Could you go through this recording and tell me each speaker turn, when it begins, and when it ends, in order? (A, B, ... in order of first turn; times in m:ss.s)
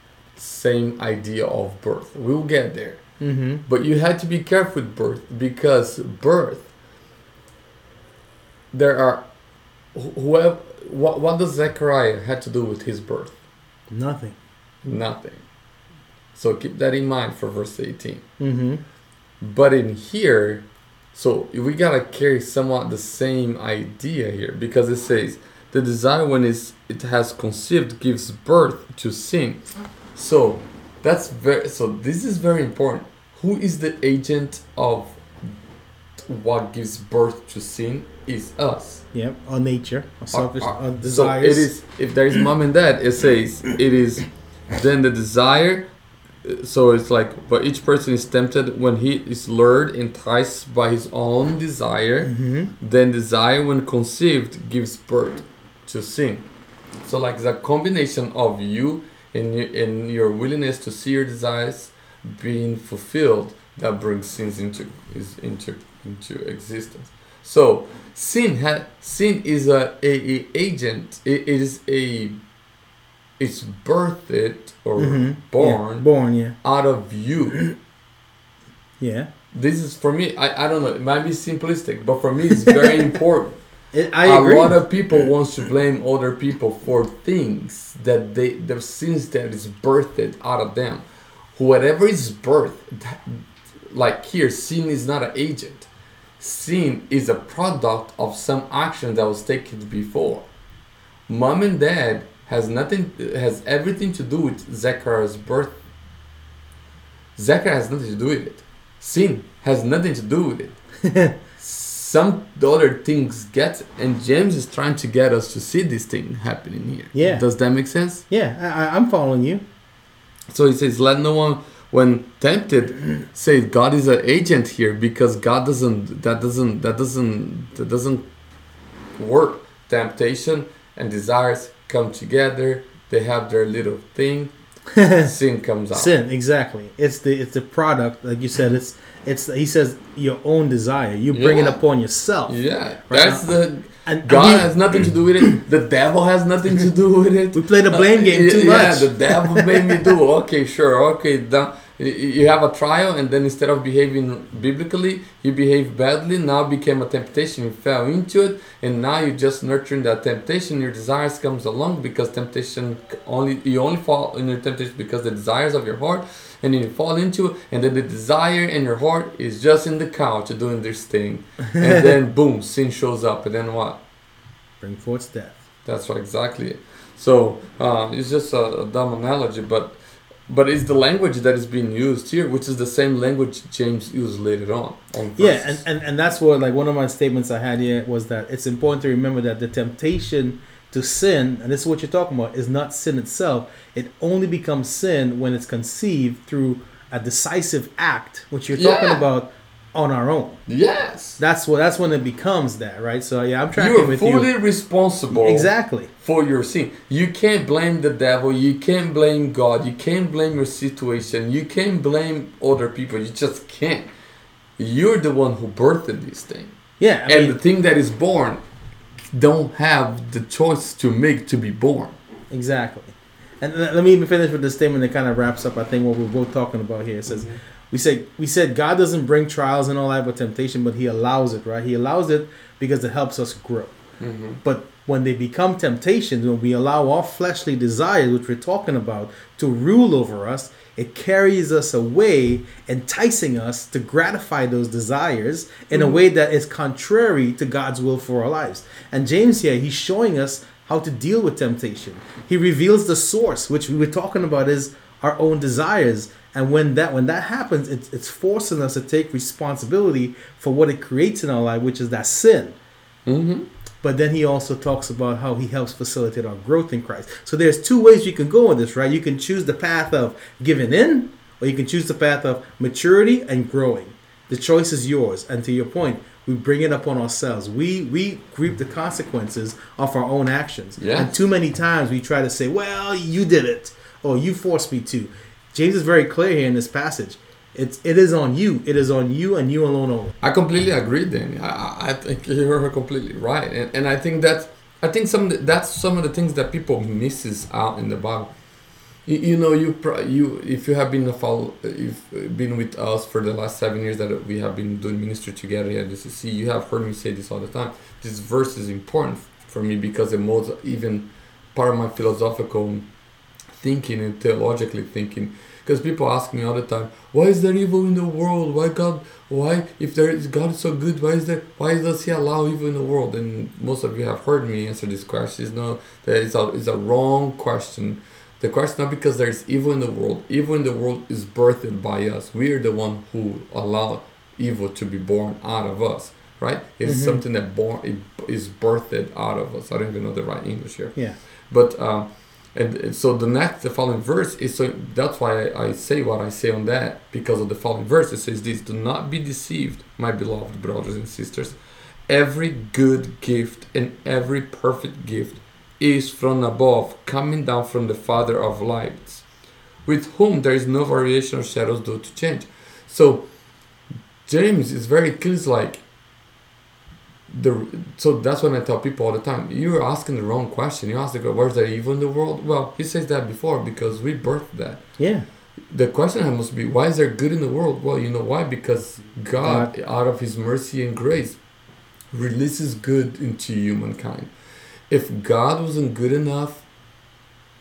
0:00.4-0:03.0 A
0:03.2-0:03.6 B
0:03.6-0:06.7 A
0:08.7-0:09.3 A
0:09.9-0:13.4 A
0:13.9-0:14.4 B
0:14.8-0:15.4 A
0:16.3-0:18.2 A
0:18.4-0:18.8 B
0:19.4-0:29.6 A
0:30.1-0:35.5 A
0:36.2-0:39.0 A
0:39.1-0:41.7 B
0:40.3-0:45.9 A
0:46.4-0:56.5 A
0:52.2-0:52.7 B
0:57.0-1:12.4 A
1:13.4-1:16.0 A
1:15.0-1:16.6 B
1:16.6-1:17.6 A
1:19.0-1:19.3 B
1:19.5-1:23.6 A
1:23.9-1:24.8 B
1:24.2-1:40.5 A
1:41.3-1:45.8 A
1:47.4-1:50.8 A
1:51.0-1:51.4 B
1:51.6-1:58.2 A
1:57.1-1:57.4 B
1:58.3-1:59.6 B
2:00.5-2:08.3 A
2:09.2-2:14.5 A
2:14.9-2:15.3 B
2:15.2-2:16.1 A
2:15.9-2:23.4 B
2:21.3-2:21.8 A
2:22.5-2:54.0 A
2:24.0-2:24.7 B
2:27.5-2:30.1 B
2:54.8-2:55.6 B
2:55.8-3:05.8 A
3:05.4-3:20.6 B
3:18.7-3:19.2 A
3:20.7-3:21.4 A
3:21.4-3:24.5 B
3:23.7-3:25.7 A
3:25.3-3:26.1 B
3:26.2-3:34.1 A
3:34.8-3:36.8 A
3:37.0-3:37.6 B
3:37.3-3:38.6 A
3:39.3-3:42.2 A
3:42.5-3:54.0 B
3:54.2-3:54.6 A
3:54.6-4:22.8 B
4:23.2-4:23.7 A
4:24.0-4:50.4 B
4:41.0-4:41.3 A
4:50.4-4:58.5 A
4:59.2-5:13.1 A
5:13.7-5:41.2 A
5:37.0-5:37.4 B
5:41.7-5:51.8 A
5:52.3-5:59.4 A
6:00.0-6:03.5 A
6:04.4-6:06.0 A
6:07.5-6:15.0 A
6:15.2-6:15.4 B
6:15.9-6:21.6 A
6:19.6-6:19.9 B
6:22.3-6:24.5 A
6:25.1-6:26.8 A